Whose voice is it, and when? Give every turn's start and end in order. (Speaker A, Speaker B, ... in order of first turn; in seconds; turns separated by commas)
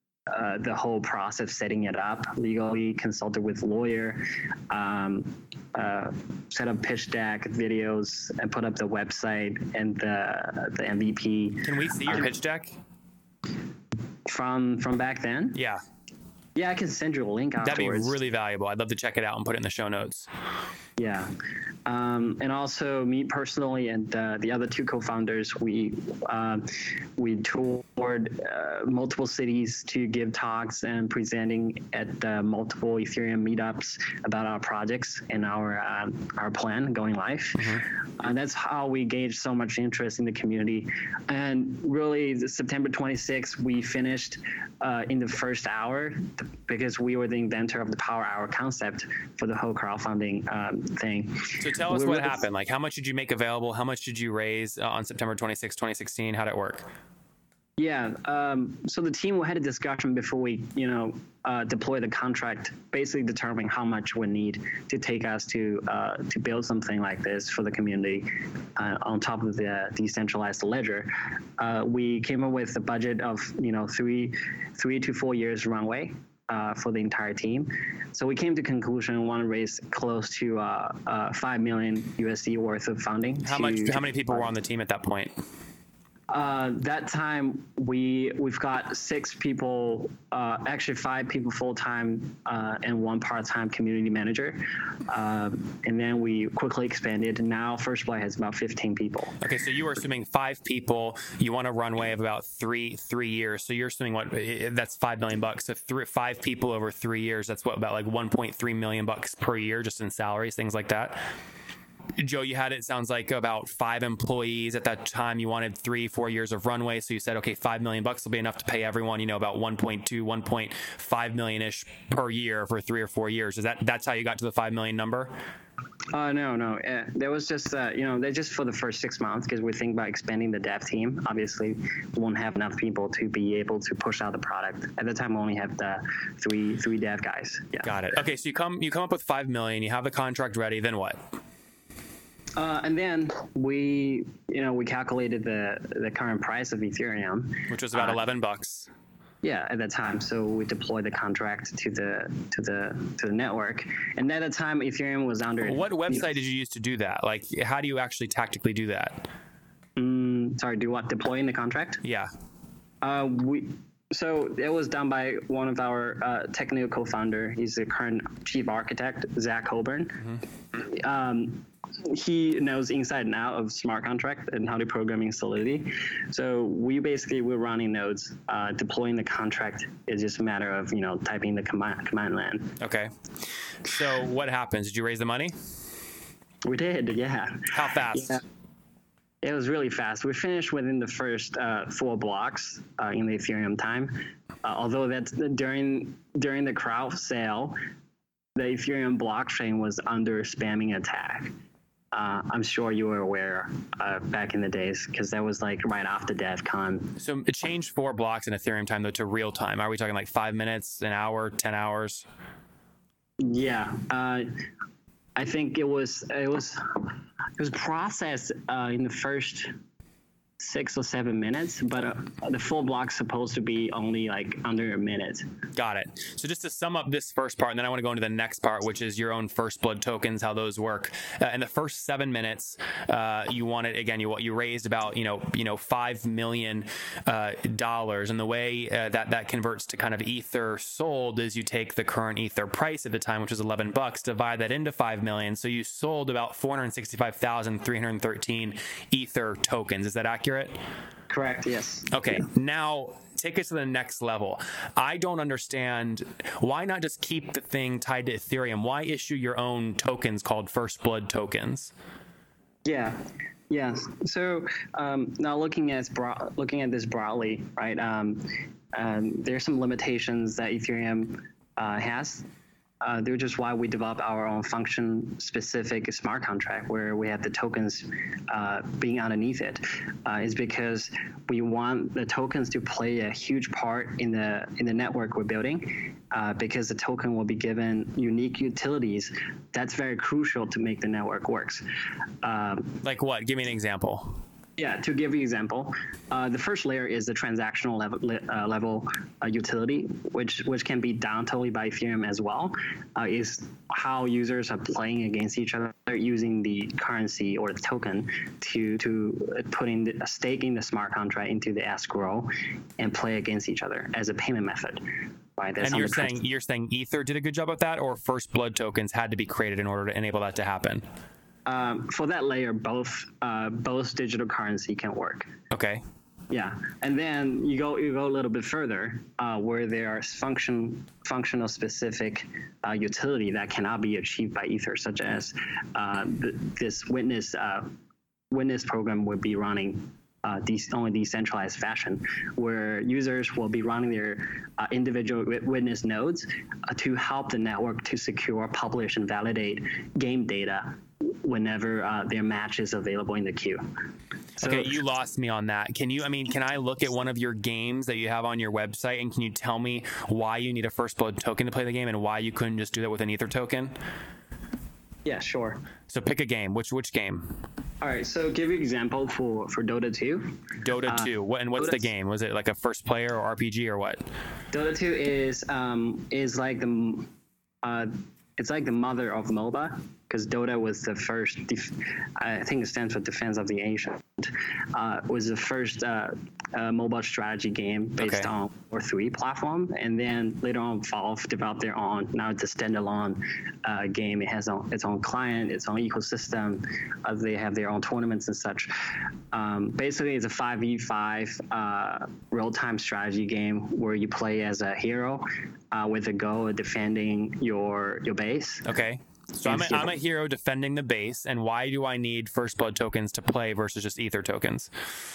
Speaker A: 0.3-12.3, Speaker B: 11.6-12.7, Speaker A: 14.2-15.6, Speaker B: 15.5-15.8, Speaker A: 16.5-18.1, Speaker B: 17.6-20.3, Speaker A: 21.0-21.3, Speaker A: 21.9-52.5, Speaker B: 37.6-37.8, Speaker B: 51.6-56.9, Speaker A: 57.8-84.5, Speaker B: 83.4-85.3, Speaker A: 86.3-99.4, Speaker B: 99.4-111.2, Speaker B: 112.2-125.3, Speaker A: 126.1-137.9, Speaker B: 137.8-141.3, Speaker A: 142.6-148.2, Speaker B: 147.7-148.9, Speaker A: 149.4-156.2, Speaker B: 155.6-159.3, Speaker A: 159.9-162.0, Speaker B: 162.0-162.3, Speaker A: 163.0-182.7, Speaker B: 182.8-183.1, Speaker B: 183.8-185.6, Speaker A: 186.6-188.4, Speaker B: 187.7-188.4, Speaker A: 189.4-197.8, Speaker A: 198.6-201.5, Speaker A: 202.1-207.1, Speaker B: 207.2-212.2, Speaker A: 213.4-214.5, Speaker A: 215.3-219.7, Speaker A: 220.6-225.4, Speaker B: 225.7-250.8, Speaker A: 251.3-252.4, Speaker B: 252.1-261.9, Speaker A: 262.8-272.5, Speaker A: 273.0-291.8, Speaker A: 292.4-293.0, Speaker B: 293.0-294.4, Speaker A: 294.8-316.4, Speaker B: 315.8-321.0, Speaker A: 321.6-325.5, Speaker B: 325.7-326.0, Speaker A: 326.5-337.9, Speaker A: 338.5-353.8, Speaker A: 354.6-355.0, Speaker B: 354.6-363.9, Speaker A: 365.2-365.8, Speaker B: 366.1-367.5, Speaker A: 368.0-372.1, Speaker B: 370.8-374.2, Speaker A: 374.7-377.3, Speaker A: 377.8-408.9, Speaker B: 388.2-388.5, Speaker B: 408.8-414.9, Speaker A: 409.6-410.1